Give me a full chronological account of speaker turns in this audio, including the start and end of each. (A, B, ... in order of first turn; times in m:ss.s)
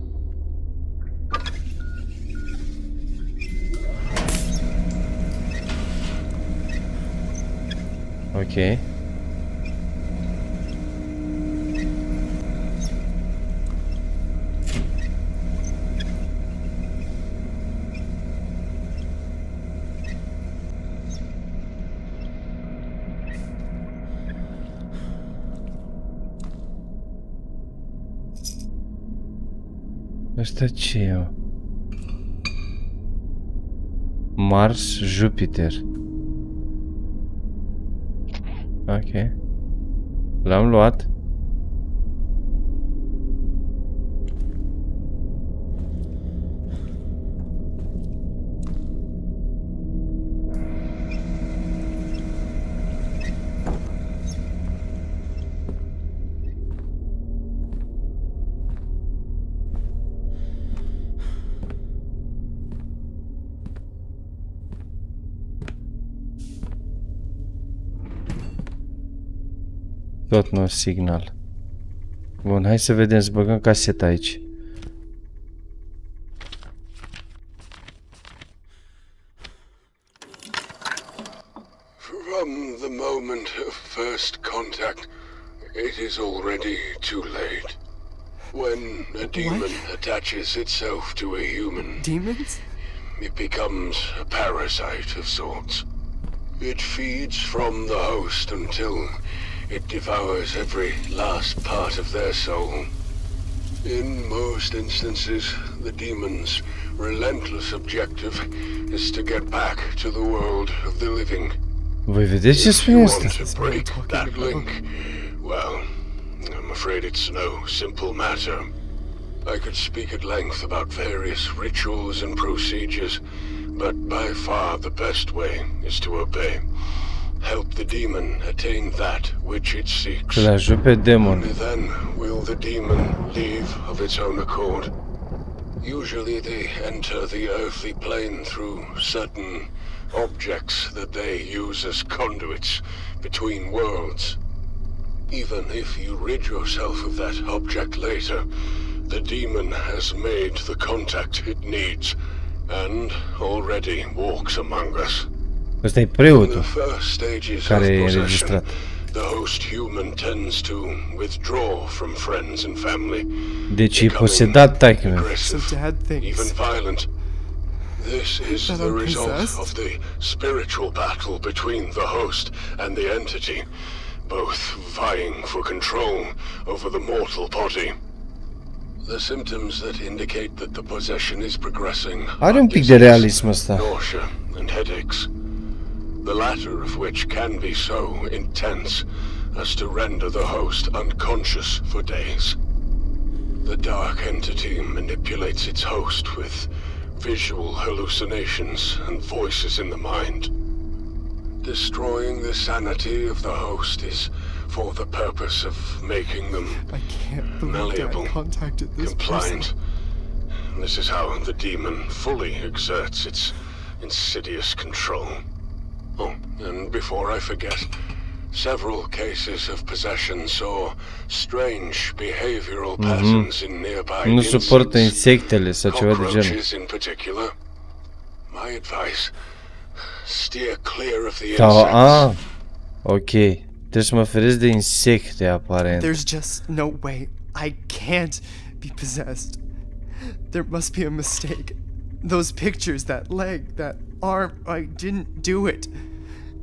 0:08.3-0:08.8 A
0:30.4-0:31.3 A
0:34.4-0:35.8 A
0:38.9-0:39.3 A
0:40.4-0:41.1 A
1:10.3-1:11.3 A
1:12.4-1:14.4 A
1:22.0-1:25.1 B
1:25.7-1:27.8 B
1:28.5-1:32.1 B
1:29.2-1:29.8 C
1:32.0-1:32.7 C
1:33.2-1:35.8 B
1:36.6-1:39.2 B
1:39.7-1:42.9 B
1:43.8-1:51.6 B
1:52.1-1:53.4 A
1:52.5-1:55.9 B
1:52.8-1:54.7 C
1:56.4-1:58.7 B
1:59.4-2:03.2 B
2:03.7-2:10.5 B
2:10.3-2:11.5 A
2:11.2-2:14.9 B
2:15.8-2:24.4 B
2:25.3-2:28.4 B
2:29.1-2:32.2 B
2:32.7-2:35.3 B
2:35.8-2:36.7 A
2:36.3-2:43.3 B
2:37.6-2:38.6 A
2:43.7-2:45.3 A
2:43.9-2:47.1 B
2:45.4-2:46.5 C
2:48.0-2:53.7 B
2:48.6-2:49.7 C
2:54.2-2:58.0 B
2:59.0-3:05.3 B
3:02.4-3:03.9 A
3:06.2-3:12.6 B
3:13.6-3:20.5 B
3:21.6-3:26.9 B
3:26.9-3:29.7 C
3:27.6-3:28.3 B
3:29.0-3:29.7 B
3:30.7-3:35.4 B
3:36.2-3:38.0 B
3:38.5-3:45.2 B
3:43.0-3:43.5 A
3:44.2-3:46.6 A
3:45.8-3:47.5 B
3:48.5-3:49.3 B
3:50.2-3:52.3 B
3:51.5-3:52.4 A
3:53.0-3:56.1 A
3:55.9-3:59.6 C
4:00.2-4:05.9 C